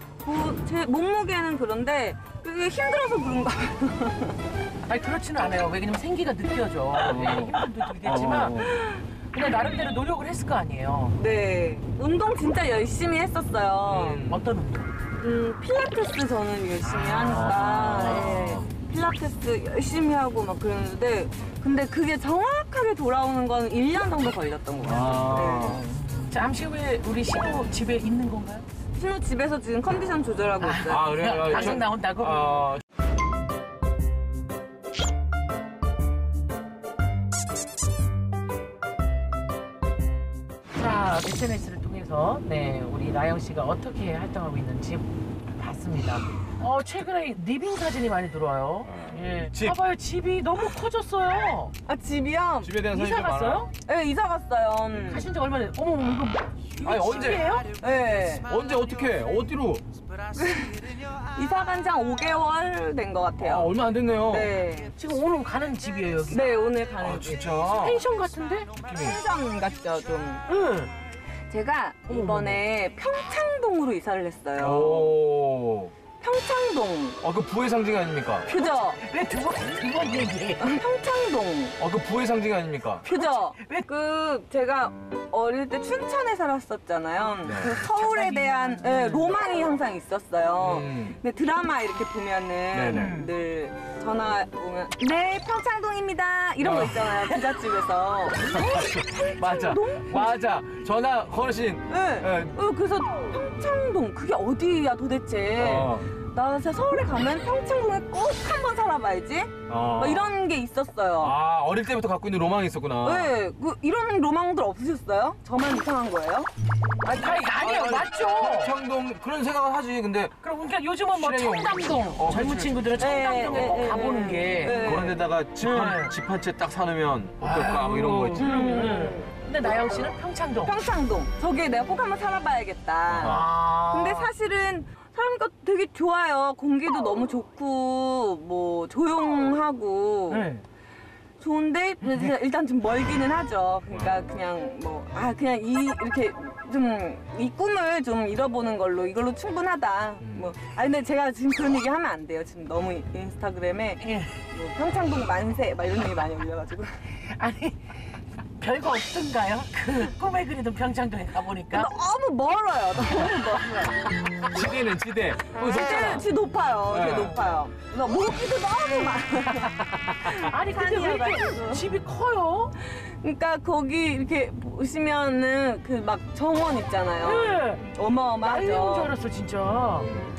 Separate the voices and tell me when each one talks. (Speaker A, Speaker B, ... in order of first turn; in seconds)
Speaker A: 0.2-4.3, 8.2-9.0, 11.1-14.2, 15.2-25.8, 28.9-31.8, 51.9-52.7, 53.9-55.3, 57.8-58.5, 60.4-60.8, 61.3-63.7, 64.3-64.9, 66.3-67.6, 68.8-70.4, 71.5-75.2, 76.2-77.2, 78.5-79.0, 80.6-81.8, 83.0-100.4, 101.9-111.3, 113.0-116.5, 123.0-125.2, 128.3-140.5, 141.4-157.0, 161.7-164.0, 165.5-171.9, 172.8-179.1
Speaker B: 4.8-8.7, 9.3-11.2, 14.3-14.9, 16.8-18.5, 24.9-28.6, 30.6-32.6, 40.7-51.7, 52.9-53.7, 55.1-57.7, 65.0-66.5, 67.8-68.7, 70.5-70.9, 72.1-72.6, 78.6-80.8, 83.0-83.9, 87.8-89.3, 92.9-93.3, 117.0-118.7, 120.4-124.9, 125.6-126.1, 127.4-130.8, 133.2-134.3, 140.3-140.6, 154.0-154.3, 157.3-157.9, 158.6-161.9, 170.4-172.7, 177.2-177.9, 178.4-180.1
Speaker C: 7.0-8.7, 13.8-14.4, 17.2-18.6, 24.8-25.9, 30.9-32.8, 48.9-49.8, 52.6-53.6, 56.8-57.6, 58.5-59.8, 63.4-64.5, 67.0-68.0, 68.8-69.2, 74.6-75.9, 77.2-78.5, 81.8-83.0, 87.4-87.8, 90.6-91.2, 92.7-93.1, 96.6-97.3, 98.5-102.5, 105.5-106.1, 109.7-110.3, 111.2-113.3, 117.2-120.3, 121.1-123.6, 124.7-128.6, 133.1-133.5, 143.9-144.2, 150.2-150.5, 164.5-166.3, 166.9-167.4